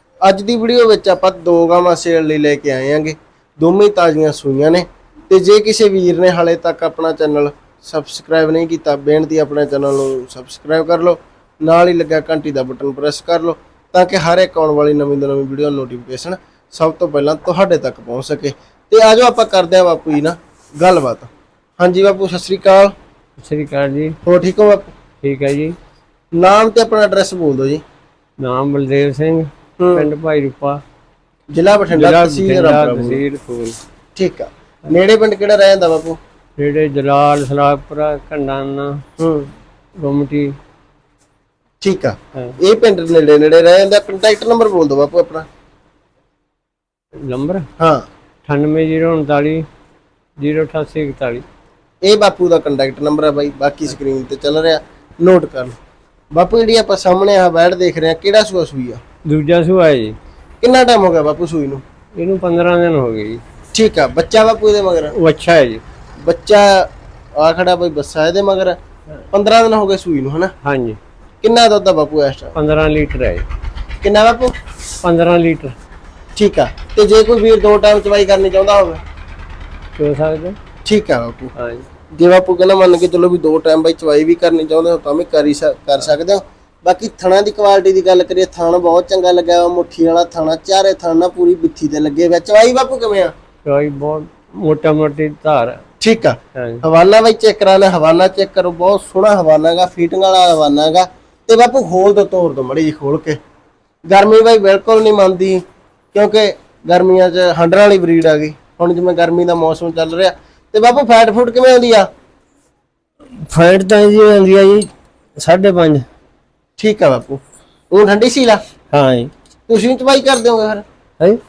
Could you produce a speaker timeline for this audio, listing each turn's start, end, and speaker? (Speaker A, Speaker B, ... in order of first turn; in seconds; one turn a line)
Speaker A: 0.2-22.9
Speaker B: 23.4-24.2
Speaker A: 24.2-24.9
Speaker B: 25.2-25.8
Speaker A: 26.3-27.8
Speaker B: 28.4-30.8
Speaker A: 29.8-30.1
Speaker A: 31.5-33.2
Speaker B: 31.9-33.8
Speaker A: 34.2-36.2
Speaker B: 36.6-39.0
Speaker A: 39.2-39.5
Speaker B: 40.0-40.6
Speaker A: 41.8-45.5
Speaker B: 47.2-47.7
Speaker A: 47.8-48.1
Speaker B: 48.5-49.7
Speaker B: 50.4-51.4
Speaker A: 52.0-55.8
Speaker A: 56.3-59.0
Speaker B: 59.3-60.2
Speaker A: 60.6-61.8
Speaker B: 62.2-63.4
Speaker A: 63.7-65.1
Speaker B: 65.1-65.8
Speaker A: 66.2-68.8
Speaker A: 69.3-70.5
Speaker B: 70.6-71.0
Speaker A: 71.4-72.5
Speaker B: 72.5-73.5
Speaker A: 74.0-74.5
Speaker B: 75.0-75.8
Speaker A: 76.3-79.0
Speaker B: 80.0-80.6
Speaker A: 80.8-81.5
Speaker B: 81.6-81.8
Speaker A: 82.1-93.3
Speaker B: 93.7-95.8
Speaker A: 96.0-103.4
Speaker B: 96.5-96.8
Speaker A: 104.1-105.6
Speaker A: 106.1-112.1
Speaker B: 113.5-116.0
Speaker A: 116.8-118.6
Speaker B: 118.9-119.3
Speaker A: 119.7-120.8